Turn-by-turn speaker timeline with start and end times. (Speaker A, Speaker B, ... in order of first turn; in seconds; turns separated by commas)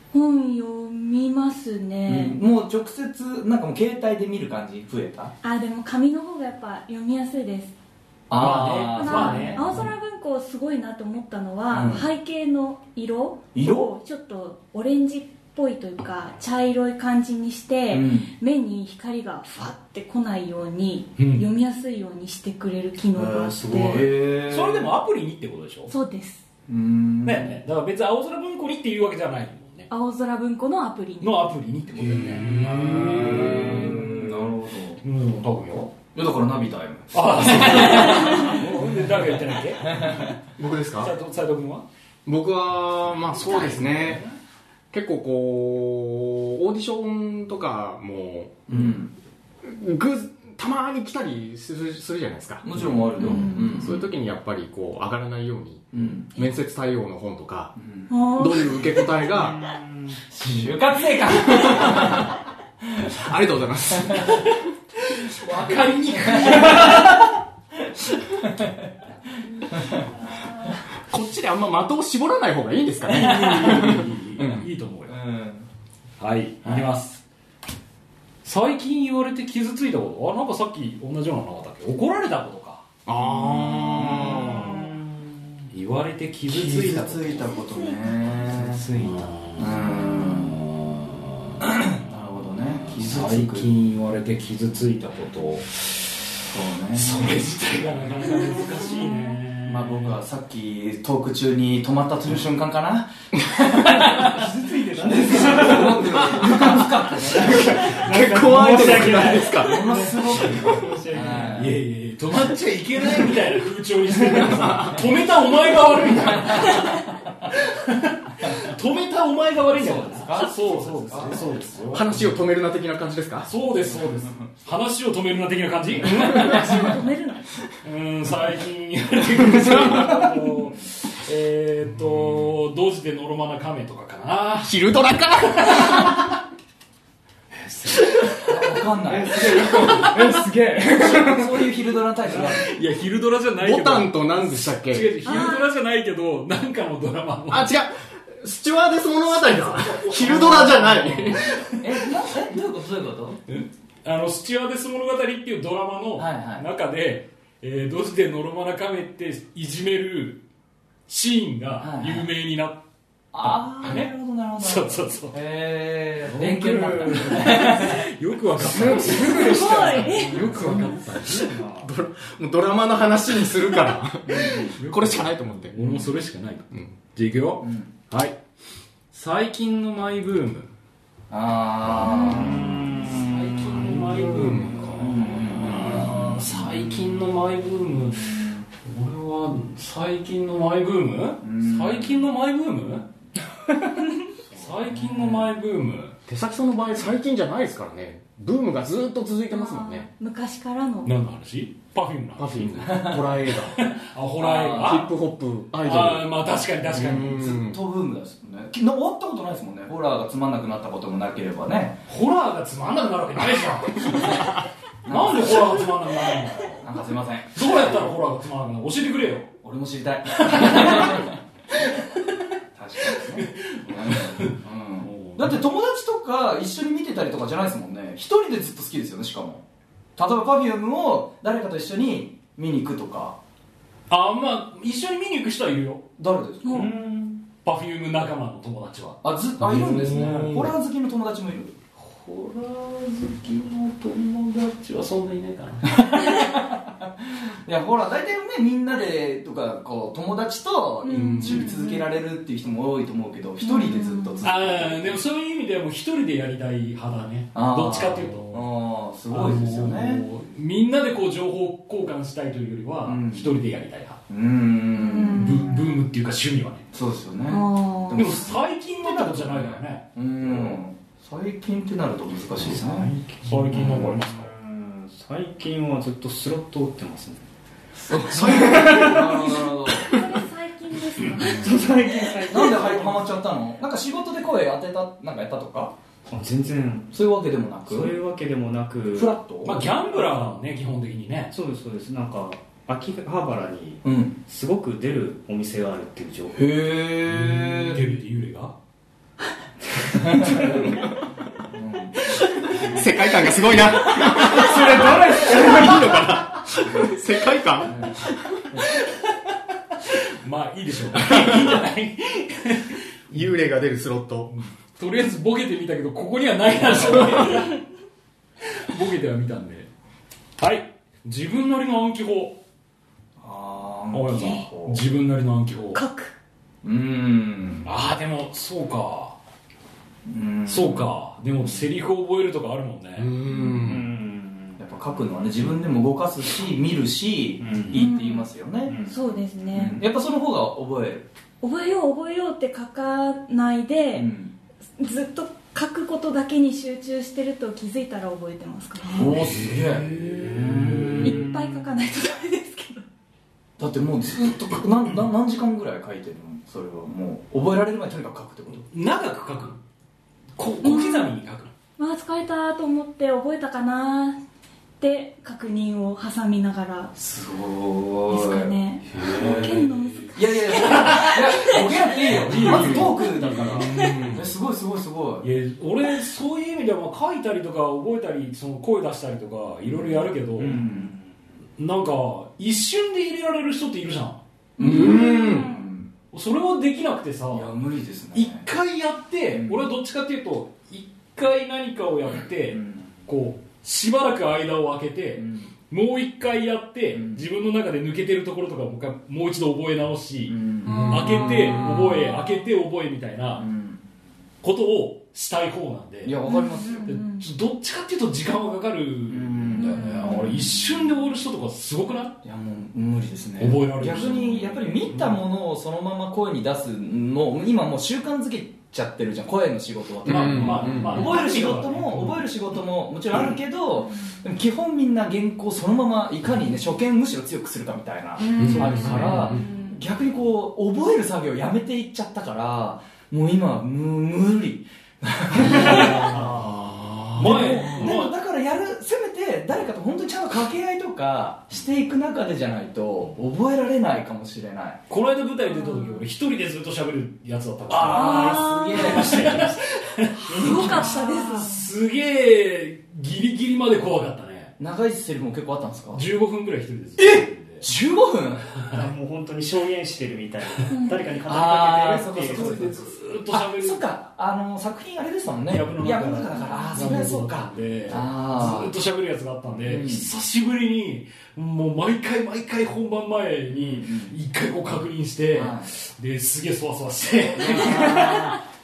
Speaker A: 0.1-2.4, Speaker B: 2.0-5.3, Speaker A: 5.4-7.7, Speaker B: 8.3-9.9, Speaker C: 8.4-9.9, Speaker A: 8.9-24.1, Speaker B: 11.7-12.1, Speaker B: 13.5-13.9, Speaker B: 17.9-18.3, Speaker C: 21.2-21.5, Speaker D: 23.1-24.0, Speaker B: 23.6-24.9, Speaker C: 24.3-25.9, Speaker A: 25.9-26.4, Speaker B: 26.7-27.6, Speaker C: 27.2-29.9, Speaker A: 29.9-31.5, Speaker C: 31.2-34.5, Speaker B: 32.1-35.0, Speaker C: 35.0-35.9, Speaker B: 36.1-38.7, Speaker C: 37.1-40.3, Speaker B: 39.8-40.3, Speaker E: 40.6-41.1, Speaker C: 41.0-41.8, Speaker E: 42.2-44.2, Speaker C: 43.3-44.4, Speaker E: 44.9-48.9, Speaker B: 48.7-49.1, Speaker E: 49.6-57.7, Speaker B: 52.6-54.0, Speaker A: 53.2-53.8, Speaker B: 55.9-56.3, Speaker B: 57.7-58.1, Speaker A: 58.1-59.3, Speaker E: 58.3-59.6, Speaker D: 59.3-60.2, Speaker B: 60.3-62.3, Speaker E: 61.3-62.4, Speaker E: 63.0-64.5, Speaker C: 64.2-67.3, Speaker B: 66.3-67.1, Speaker B: 69.7-70.1, Speaker E: 71.1-74.7, Speaker C: 73.1-75.2, Speaker B: 75.1-75.7, Speaker C: 76.2-77.2, Speaker C: 78.4-82.8, Speaker E: 83.0-84.7, Speaker B: 83.7-84.9, Speaker C: 84.1-84.8, Speaker C: 85.7-87.5, Speaker B: 86.5-88.8, Speaker A: 87.7-88.1, Speaker D: 88.4-89.3, Speaker C: 88.5-91.5, Speaker B: 89.6-90.6, Speaker B: 91.6-93.7, Speaker C: 92.9-95.9, Speaker B: 96.5-97.4, Speaker C: 96.9-100.2, Speaker B: 99.6-104.5, Speaker D: 104.1-111.6, Speaker B: 105.0-108.0, Speaker E: 107.5-109.8, Speaker B: 108.7-111.8, Speaker C: 111.5-122.3, Speaker B: 116.3-116.9, Speaker B: 119.7-121.9, Speaker E: 121.9-123.5, Speaker C: 123.4-127.0, Speaker A: 126.2-127.5, Speaker C: 127.8-134.8, Speaker E: 129.5-129.9, Speaker E: 134.6-136.2, Speaker C: 135.6-136.2, Speaker C: 137.5-138.4, Speaker B: 138.4-142.7, Speaker D: 139.1-141.6, Speaker C: 139.8-140.2, Speaker C: 142.3-147.7, Speaker E: 143.6-145.2, Speaker A: 145.2-145.7, Speaker E: 147.5-151.6, Speaker C: 149.3-151.8, Speaker B: 151.4-153.4, Speaker C: 153.5-160.4, Speaker B: 156.2-156.7, Speaker C: 161.1-162.8, Speaker B: 161.8-162.3, Speaker B: 163.3-168.1, Speaker C: 163.4-165.3, Speaker C: 166.2-171.5, Speaker B: 168.6-170.8, Speaker E: 168.8-169.7, Speaker A: 169.2-170.8, Speaker E: 170.6-171.2, Speaker D: 171.3-171.9, Speaker E: 171.7-176.0, Speaker C: 174.5-178.4, Speaker B: 177.6-177.9, Speaker C: 179.1-180.7, Speaker B: 181.3-182.8, Speaker D: 182.2-183.3, Speaker C: 182.9-193.1, Speaker E: 184.3-184.9, Speaker B: 184.9-186.6, Speaker B: 191.4-192.2, Speaker C: 194.5-196.2, Speaker B: 194.5-195.5, Speaker E: 196.3-200.1, Speaker A: 199.5-201.1, Speaker C: 201.0-205.1, Speaker E: 202.4-203.8, Speaker B: 202.9-203.2, Speaker B: 204.4-205.1, Speaker E: 204.7-206.3, Speaker C: 205.7-207.4, Speaker E: 206.9-207.8, Speaker B: 207.1-212.0, Speaker C: 212.1-216.9, Speaker B: 215.0-215.7, Speaker B: 216.8-217.7, Speaker C: 217.5-219.5, Speaker B: 219.6-221.4, Speaker C: 220.4-221.3, Speaker B: 222.7-229.6, Speaker C: 223.1-225.6, Speaker B: 230.2-233.4, Speaker C: 234.1-236.1, Speaker B: 236.2-236.9, Speaker A: 236.6-236.9, Speaker D: 236.7-237.4, Speaker C: 237.6-240.7, Speaker B: 239.2-241.7, Speaker C: 242.0-245.9, Speaker B: 245.9-255.2, Speaker A: 251.0-252.1, Speaker C: 251.1-251.7, Speaker A: 253.6-254.4, Speaker C: 254.4-258.7, Speaker B: 257.5-260.2, Speaker C: 259.3-264.2, Speaker B: 263.1-263.5, Speaker B: 264.3-265.8, Speaker A: 264.9-265.8, Speaker C: 265.3-266.9, Speaker B: 266.9-273.1, Speaker A: 267.5-268.4, Speaker C: 268.1-270.8, Speaker D: 272.6-277.4, Speaker C: 273.4-274.5, Speaker B: 278.0-280.1, Speaker D: 278.2-279.6, Speaker A: 279.8-282.3, Speaker D: 281.4-283.4, Speaker B: 282.4-285.9, Speaker D: 286.3-287.1, Speaker B: 287.1-288.1, Speaker D: 287.9-290.6, Speaker B: 289.1-289.8, Speaker C: 289.6-291.5, Speaker D: 291.5-296.6, Speaker B: 294.0-294.4, Speaker B: 296.5-298.0, Speaker C: 297.3-298.7, Speaker B: 300.1-301.0, Speaker B: 301.7-302.9, Speaker E: 302.8-308.6, Speaker D: 304.1-306.4, Speaker C: 310.1-313.6, Speaker E: 311.2-311.7, Speaker E: 313.3-314.5, Speaker C: 314.5-317.8, Speaker C: 318.7-319.9, Speaker C: 320.6-322.6, Speaker B: 323.4-325.0, Speaker C: 324.1-326.0, Speaker A: 325.9-326.3, Speaker B: 326.8-327.9, Speaker C: 327.8-329.4, Speaker B: 330.2-331.1, Speaker C: 330.7-333.3, Speaker E: 333.2-334.1, Speaker D: 333.6-334.8, Speaker B: 334.8-339.0, Speaker D: 337.6-338.0, Speaker A: 337.9-338.5, Speaker D: 338.9-339.1, Speaker A: 339.0-340.0, Speaker B: 339.7-341.3, Speaker A: 341.6-344.3, Speaker B: 344.1-344.6, Speaker A: 345.0-349.3, Speaker B: 349.1-351.4, Speaker C: 349.2-351.4, Speaker A: 351.2-353.0, Speaker B: 353.8-358.9, Speaker C: 358.9-359.8, Speaker C: 360.6-361.7, Speaker A: 360.8-361.3, Speaker A: 362.0-364.4, Speaker A: 365.0-367.1, Speaker B: 367.1-375.5, Speaker A: 368.3-374.2, Speaker C: 369.1-374.2, Speaker E: 373.5-374.5, Speaker C: 375.4-380.8, Speaker B: 380.6-381.1, Speaker D: 380.6-381.1, Speaker C: 381.8-384.4, Speaker A: 384.8-385.9, Speaker E: 384.8-385.7, Speaker B: 385.0-386.1, Speaker C: 386.3-387.7, Speaker B: 387.5-388.6, Speaker C: 388.3-403.6, Speaker B: 389.5-389.8, Speaker B: 392.7-393.1, Speaker B: 395.4-395.7, Speaker B: 397.1-397.4, Speaker B: 400.5-401.4, Speaker E: 400.8-402.3, Speaker B: 403.6-404.0, Speaker C: 404.6-406.4, Speaker B: 406.2-407.2, Speaker A: 406.5-407.4, Speaker C: 407.0-412.4, Speaker B: 409.3-410.9, Speaker A: 409.8-410.3, Speaker B: 412.4-436.4, Speaker C: 413.6-415.4, Speaker C: 420.2-422.4, Speaker E: 420.2-421.3, Speaker A: 428.5-430.0, Speaker E: 428.6-429.7, Speaker C: 428.6-429.6, Speaker D: 435.6-436.7, Speaker C: 435.7-436.5, Speaker E: 436.5-437.7, Speaker C: 437.4-438.3, Speaker B: 437.4-445.0, Speaker C: 445.1-454.7, Speaker A: 445.7-446.2, Speaker B: 447.9-449.7, Speaker A: 448.0-449.4, Speaker A: 450.5-451.8, Speaker D: 450.5-451.5, Speaker B: 454.8-456.2, Speaker C: 456.1-457.9, Speaker B: 457.2-458.7, Speaker D: 458.9-462.9, Speaker A: 460.9-461.2, Speaker B: 461.4-468.9, Speaker C: 462.3-464.0, Speaker C: 465.7-478.6, Speaker B: 469.8-470.3, Speaker B: 474.0-474.4, Speaker B: 475.5-475.9, Speaker B: 477.6-478.6